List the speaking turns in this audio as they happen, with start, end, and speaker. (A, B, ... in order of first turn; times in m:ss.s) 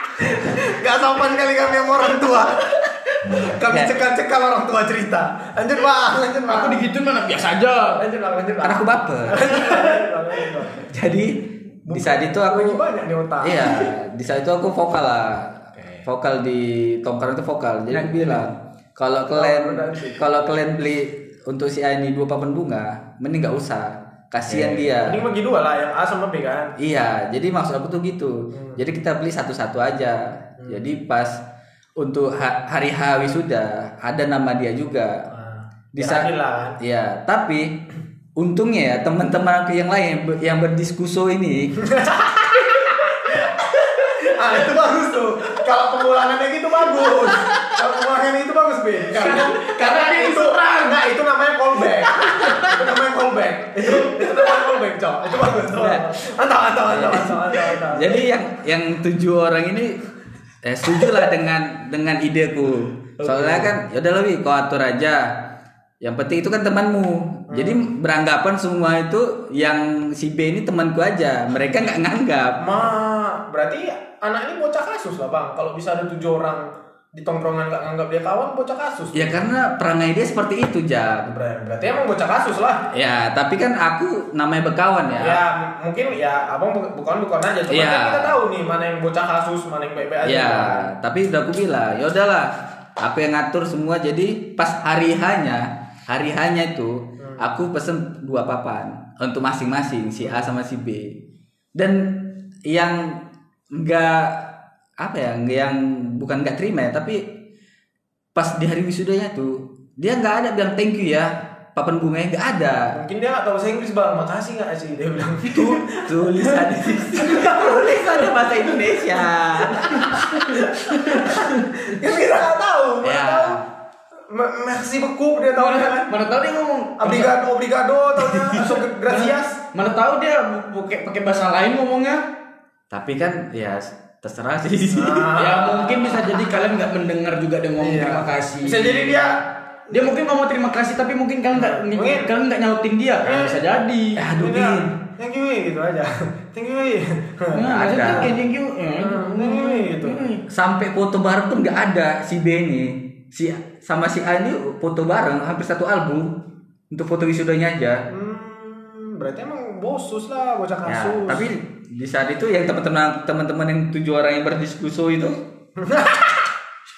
0:00.2-0:06.8 A
0:03.7-0:04.0 B
0:06.5-0:08.0 C
0:08.0-0:10.9 A
0:08.6-0:09.6 B
0:10.9-0:12.8 B
0:11.9-0:13.9 A
0:13.4-0:25.2 B
0:15.8-0:16.0 C
0:17.9-0:18.4 C
0:19.3-0:20.2 A
0:24.5-0:24.8 C
0:24.9-0:26.7 A
0:26.8-0:31.4 B
0:28.5-0:28.8 A
0:30.6-0:30.9 A
0:32.0-0:35.2 B
0:35.3-0:36.8 A
0:35.9-0:36.3 B
0:36.8-0:37.8 B
0:38.4-0:41.8 B
0:41.8-0:58.3 A
0:49.1-0:51.0 C
0:52.1-0:52.8 C
0:53.9-0:54.5 C
0:55.8-0:56.1 B
0:56.9-1:00.0 B
1:00.6-1:05.3 B
1:03.2-1:03.6 C
1:03.3-1:03.6 A
1:06.0-1:12.8 B
1:07.5-1:07.9 A
1:12.6-1:19.4 A
1:19.1-1:21.3 B
1:21.3-1:22.9 A
1:22.9-1:25.4 B
1:25.2-1:30.9 A
1:27.7-1:28.4 B
1:30.2-1:41.2 B
1:37.2-1:37.5 A
1:41.8-1:47.3 B
1:48.4-1:52.9 B
1:52.9-1:58.3 A
1:55.5-2:00.4 B
1:59.8-2:03.6 A
2:00.1-2:01.7 C
2:03.0-2:03.6 B
2:04.3-2:06.1 A
2:05.6-2:07.3 C
2:07.0-2:09.6 A
2:08.2-2:12.3 C
2:12.9-2:15.4 B
2:14.9-2:16.3 A
2:15.4-2:19.3 C
2:17.8-2:19.4 A
2:19.9-2:24.2 C
2:21.5-2:22.3 A
2:23.2-2:23.6 A
2:24.2-2:24.9 B
2:24.4-2:28.3 A
2:27.5-2:30.4 C
2:27.7-2:28.3 B
2:29.0-2:30.3 A
2:30.5-2:38.0 B
2:38.1-2:41.5 A
2:40.9-2:45.4 B
2:45.8-2:46.5 A